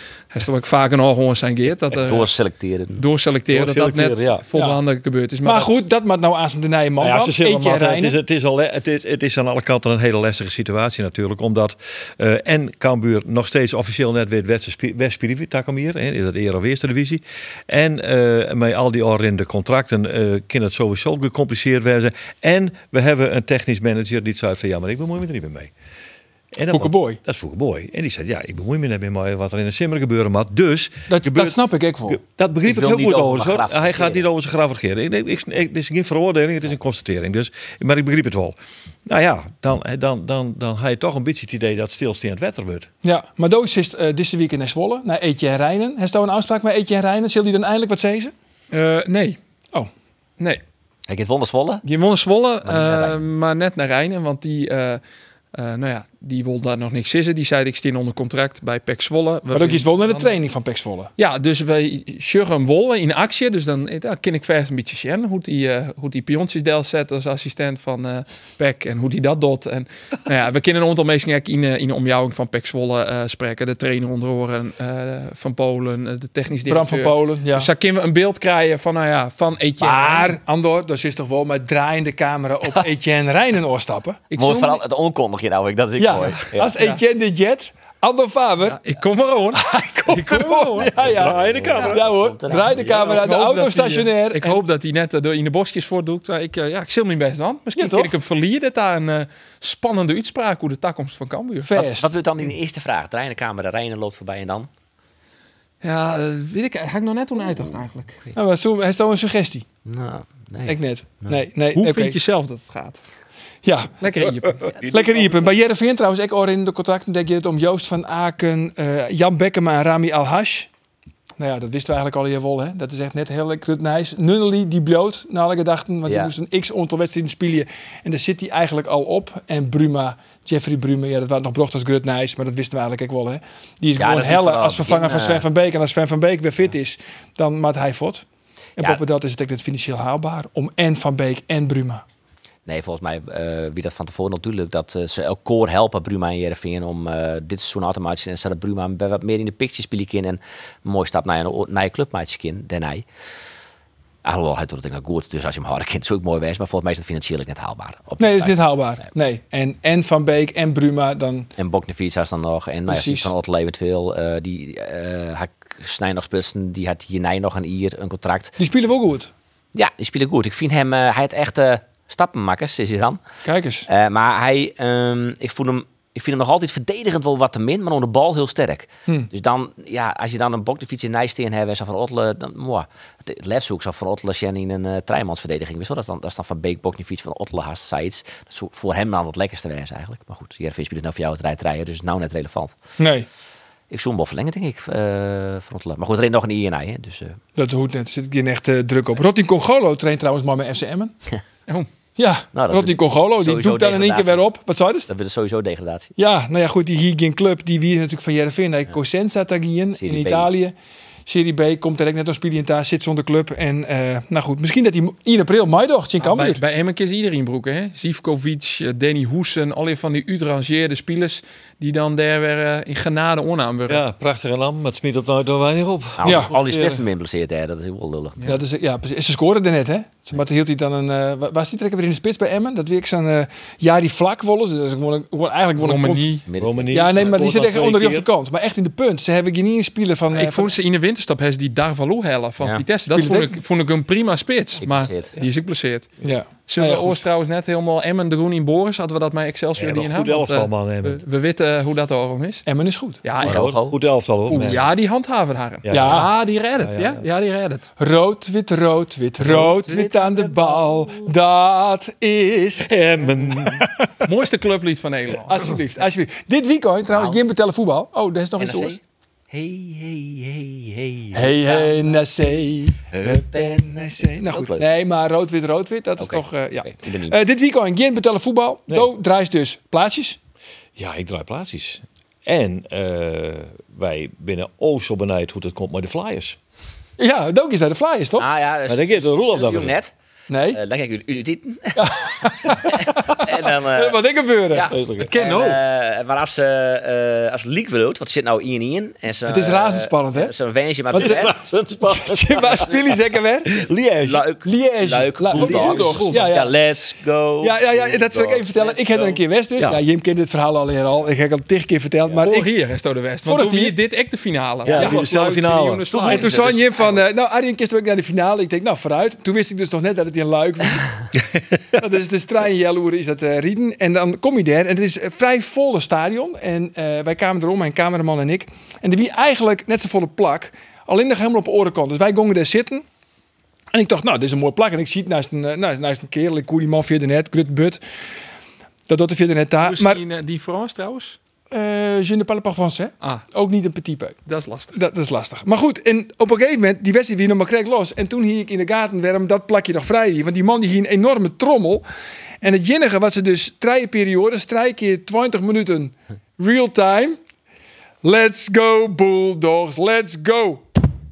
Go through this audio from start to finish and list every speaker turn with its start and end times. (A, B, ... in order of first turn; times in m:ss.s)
0:00.3-0:02.3 A
0:01.9-0:03.0 B
0:03.0-0:05.8 A
0:03.5-0:04.4 C
0:04.5-0:04.8 D
0:05.4-0:08.2 D
0:07.0-0:25.7 C
0:26.5-0:42.9 C
0:26.7-0:27.2 D
0:31.1-0:32.2 D
0:32.6-0:34.3 B
0:43.0-0:48.3 D
0:48.7-0:49.4 A
0:51.1-0:51.8 B
0:51.8-0:55.0 A
0:52.6-0:53.2 B
0:55.5-1:00.4 A
0:59.5-1:01.1 D
1:01.2-1:20.4 A
1:16.7-1:17.7 D
1:19.8-1:24.2 D
1:24.3-1:24.8 A
1:24.4-1:26.8 B
1:26.0-1:28.8 D
1:28.7-1:30.9 A
1:29.5-1:34.6 D
1:30.9-1:33.2 B
1:31.0-1:32.1 C
1:32.9-1:41.8 A
1:37.8-1:38.1 D
1:41.6-1:42.1 D
1:41.8-1:44.7 B
1:45.8-1:48.2 A
1:48.3-1:49.6 D
1:49.8-1:51.4 B
1:50.7-1:52.2 D
1:51.8-1:53.0 A
1:53.6-1:54.3 D
1:54.0-1:54.7 A
1:54.7-1:55.6 B
1:54.8-2:00.7 D
2:01.4-2:18.2 D
2:06.1-2:06.3 B
2:14.0-2:15.5 B
2:18.8-2:22.0 D
2:22.7-2:33.0 B
2:34.2-2:39.1 B
2:38.2-2:41.5 D
2:41.6-2:48.6 B
2:42.9-2:43.3 D
2:48.6-2:49.3 D
2:49.8-2:53.2 B
2:53.4-2:53.9 D
2:53.9-3:12.8 B
3:13.0-3:13.3 D
3:13.9-3:17.4 B
3:17.6-3:21.1 D
3:22.2-3:25.1 D
3:22.5-3:24.4 B
3:25.1-3:26.1 B
3:26.2-3:30.7 D
3:29.9-3:30.5 B
3:31.3-3:36.6 D
3:36.2-3:44.0 A
3:43.9-3:47.0 C
3:46.2-3:48.4 B
3:46.2-3:46.5 D
3:48.5-4:00.7 D
3:55.8-3:56.4 A
3:56.5-3:57.4 B
3:56.6-3:58.3 C
4:00.3-4:06.1 A
4:03.1-4:03.6 D
4:04.8-4:05.4 B
4:06.2-4:07.2 D
4:06.7-4:12.7 A
4:09.8-4:11.2 C
4:12.7-4:13.2 D
4:13.2-4:13.7 A
4:13.4-4:14.0 B
4:13.4-4:14.9 C
4:14.5-4:17.9 A
4:14.5-4:14.8 D
4:15.8-4:17.2 C
4:15.9-4:16.3 D
4:18.0-4:22.9 D
4:19.4-4:21.3 B
4:22.8-4:23.9 C
4:23.4-4:24.2 D
4:24.2-4:25.8 A
4:25.5-4:29.0 D
4:27.1-4:27.4 B
4:28.6-4:29.0 B
4:29.5-4:34.9 B
4:31.3-4:40.4 D
4:36.2-4:37.4 B
4:41.0-4:46.6 C
4:47.2-4:48.5 D
4:48.4-4:50.1 B
4:48.9-4:50.0 C
4:50.5-4:50.8 D
4:50.7-4:54.2 B
4:52.0-4:55.8 D
4:54.7-5:01.6 B
4:54.9-4:55.3 C
4:55.3-4:55.7 A
4:59.5-5:00.5 D
5:01.1-5:03.0 C
5:01.1-5:03.9 D
5:03.7-5:04.4 C
5:04.2-5:09.4 B
5:04.6-5:06.8 D
5:05.5-5:06.3 C
5:05.6-5:06.5 A
5:07.6-5:12.7 D
5:12.2-5:12.5 B
5:12.4-5:16.9 A
5:13.5-5:14.0 D
5:14.8-5:16.8 C
5:15.0-5:15.2 D
5:16.2-5:21.4 D
5:21.9-5:33.0 D
5:33.9-5:38.0 D
5:39.1-5:40.2 D
5:39.8-5:41.4 A
5:41.7-5:44.4 D
5:44.5-5:45.0 A
5:44.9-5:52.0 D
5:52.6-5:57.4 D
5:58.2-6:00.9 D